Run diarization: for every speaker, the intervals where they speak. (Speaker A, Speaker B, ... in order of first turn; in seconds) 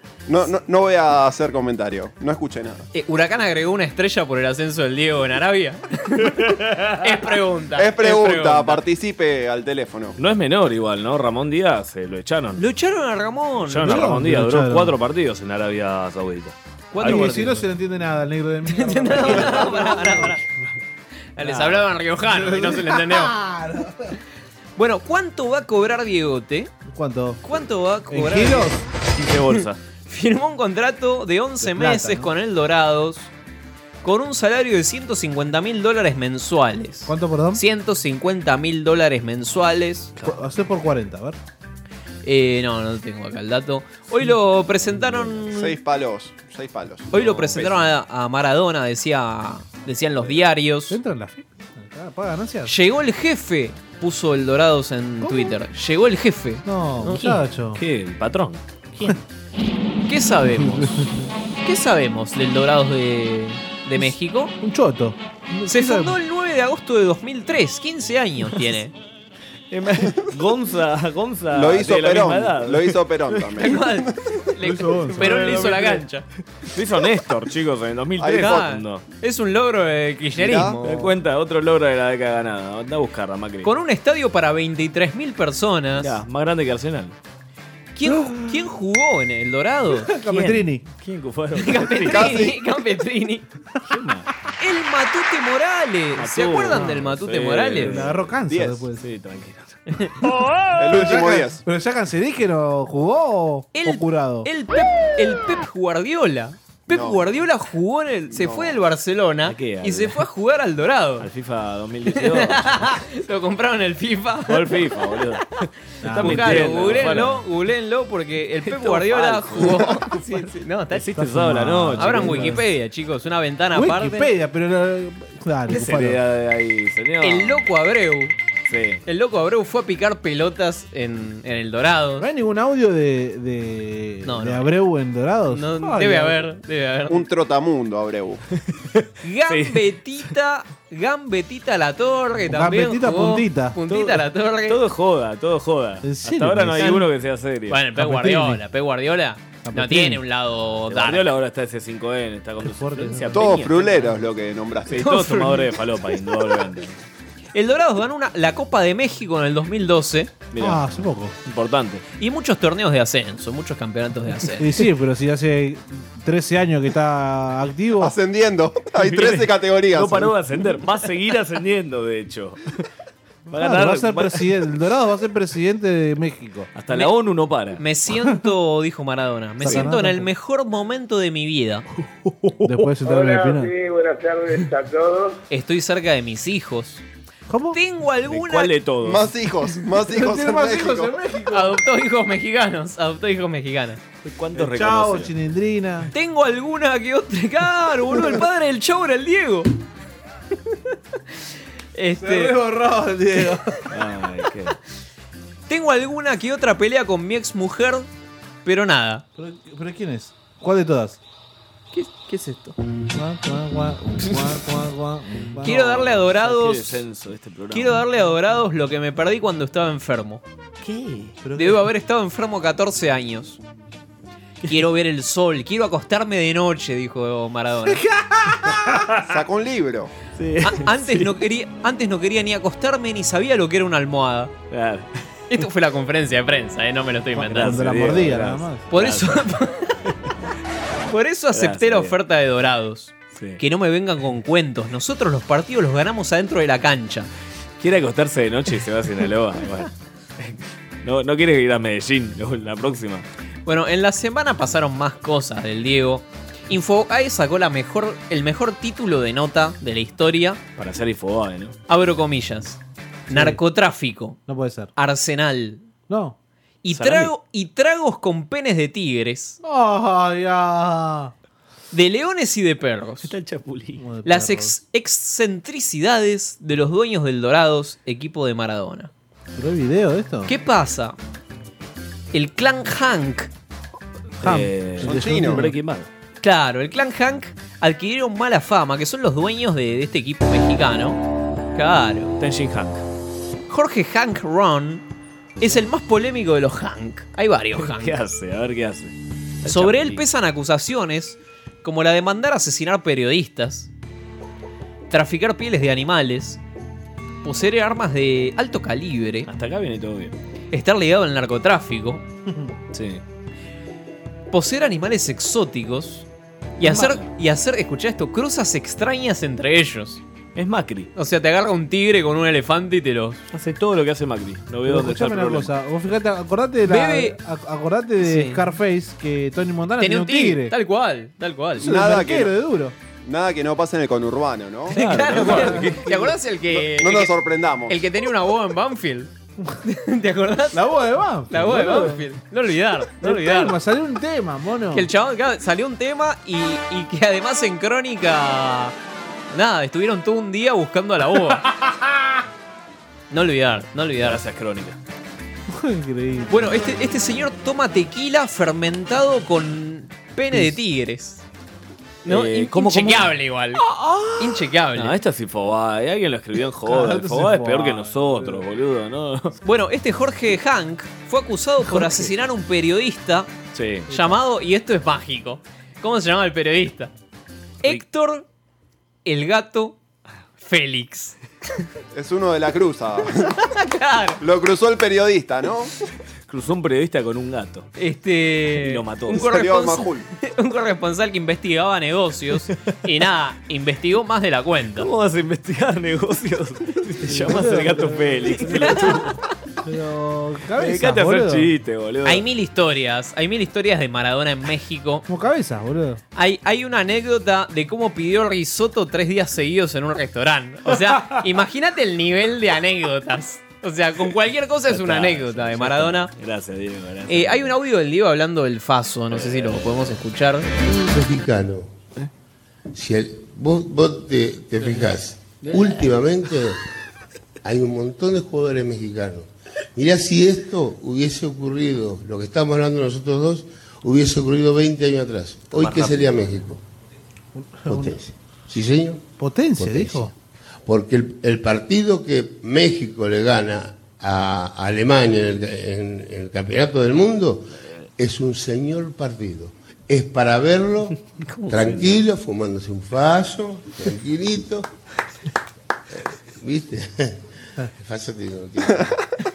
Speaker A: 0.3-2.9, 7.8-10.2, 45.5-47.1, 71.5-73.8, 78.2-78.7, 80.3-80.8, 92.1-92.6, 98.5-98.8, 100.8-101.6, 106.9-107.3, 108.3-108.8, 137.1-138.4, 153.3-154.9, 168.0-170.3, 189.0-191.1, 229.2-230.1, 285.0-285.6, 331.8-332.5, 333.2-335.0, 336.7-337.9, 382.1-383.5, 384.4-385.9, 389.3-390.3
Speaker B: 2.9-8.8, 12.6-14.1, 16.9-17.6, 18.7-20.4, 21.4-23.3, 24.8-26.7, 27.4-28.7, 29.5-33.3, 34.0-40.1, 42.2-45.7, 47.1-51.0, 52.6-57.4, 60.1-61.0, 61.6-64.5, 65.7-68.9, 73.6-76.2, 78.3-81.1, 83.6-86.1, 87.9-90.7, 91.6-93.4, 94.6-98.0, 99.9-100.1, 103.7-111.3, 112.1-114.7, 116.2-121.1, 122.0-124.3, 127.2-128.3, 129.1-132.2, 134.2-134.7, 135.5-137.2, 139.2-144.8, 146.8-147.1, 147.7-151.3, 154.9-155.7, 157.5-160.3, 162.2-164.8, 177.8-181.8, 185.5-187.0, 187.7-188.7, 191.5-194.0, 196.1-199.7, 201.9-202.6, 205.7-208.1, 208.6-209.2, 211.9-212.8, 215.6-217.0, 217.7-220.4, 221.6-223.6, 224.7-228.0, 230.6-234.5, 235.5-237.9, 238.9-240.0, 241.1-247.3, 253.7-260.6, 261.9-264.4, 264.9-265.9, 266.8-269.6, 271.9-273.3, 274.2-279.1, 280.5-281.1, 282.3-283.5, 286.4-291.2, 291.7-292.4, 293.7-295.0, 295.6-298.1, 299.6-303.9, 305.1-306.6, 307.4-309.5, 310.7-312.2, 314.5-316.3, 316.8-320.2, 321.1-323.4, 326.9-327.4, 328.2-328.6, 330.0-331.9, 334.9-337.3, 337.9-339.3, 339.8-340.8, 341.5-343.8, 344.9-348.9, 349.5-351.6, 353.3-354.4, 356.5-361.4, 362.2-363.8, 364.4-365.1, 369.6-373.5, 374.1-377.1, 377.8-378.4, 379.2-380.0, 380.6-381.4, 383.6-384.4, 388.0-395.1, 398.6-399.2, 402.2-405.2, 406.3-416.3, 417.3-420.7
Speaker C: 6.5-7.0, 10.2-12.6, 13.6-17.6, 29.1-29.8, 44.9-45.4, 47.1-47.9, 57.7-58.6, 69.7-73.8, 75.0-76.1, 76.6-79.0, 80.8-83.7, 86.0-87.1, 88.1-88.4, 90.9-92.5, 93.8-94.3, 96.2-98.3, 99.0-99.8, 109.4-110.2, 111.2-113.0, 114.5-117.4, 118.6-122.6, 125.7-127.7, 128.7-129.0, 138.7-140.2, 143.9-147.8, 150.9-154.2, 154.8-157.0, 160.5-162.0, 169.0-172.7, 173.5-174.5, 176.7-177.8, 188.2-189.3, 194.2-195.3, 203.9-204.8, 214.2-214.5, 215.5-218.0, 220.8-221.3, 228.6-229.2, 230.3-231.4, 234.7-235.1, 237.4-239.4, 241.5-242.2, 243.3-243.6, 247.8-253.2, 260.8-261.7, 266.9-267.3, 273.2-274.0, 284.4-286.1, 292.4-293.0, 297.7-300.2, 309.5-310.4, 312.9-313.2, 316.8-317.3, 320.6-321.1, 323.5-325.7, 334.9-336.3, 354.2-355.0, 362.2-369.6, 371.9-372.3, 373.7-374.1, 386.5-387.9, 388.8-389.5, 395.0-399.3, 400.8-402.4, 411.0-411.4, 414.9-417.7, 419.3-420.9, 425.6-426.1, 435.7-436.5, 451.6-452.2
Speaker D: 13.8-15.0, 17.0-20.4, 22.2-24.2, 26.9-27.4, 28.1-28.8, 31.6-32.3, 37.0-37.6, 40.2-41.4, 50.9-52.7, 55.2-55.5, 56.6-57.8, 64.6-66.2, 74.6-75.6, 90.1-90.8, 97.8-99.0, 100.9-104.5, 116.0-117.2, 121.1-122.6, 123.7-126.2, 132.2-136.4, 142.5-143.8, 146.0-147.0, 148.0-148.6, 149.6-150.2, 152.6-153.4, 160.6-161.3, 164.6-168.1, 173.6-176.7, 179.6-180.3, 182.6-183.7, 187.5-187.8, 190.1-191.8, 194.6-196.1, 202.2-203.8, 209.3-211.2, 213.1-215.8, 221.4-221.8, 227.8-229.1, 237.3-238.8, 263.3-263.6, 264.5-264.9, 266.1-266.4, 269.6-271.3, 274.0-274.7, 279.6-280.5, 284.4-285.7, 312.4-312.7, 324.9-330.7, 331.8-332.9, 340.7-342.2, 343.2-345.1, 355.7-356.7, 366.8-368.6, 397.2-399.2, 399.8-401.7, 405.3-406.2, 437.5-438.2, 439.4-440.3
Speaker E: 183.0-185.4
Speaker F: 420.8-421.9, 422.9-426.8, 427.6-436.8, 437.9-439.2, 439.8-440.3, 440.9-447.6, 448.2-451.2, 451.7-454.9, 456.3-459.1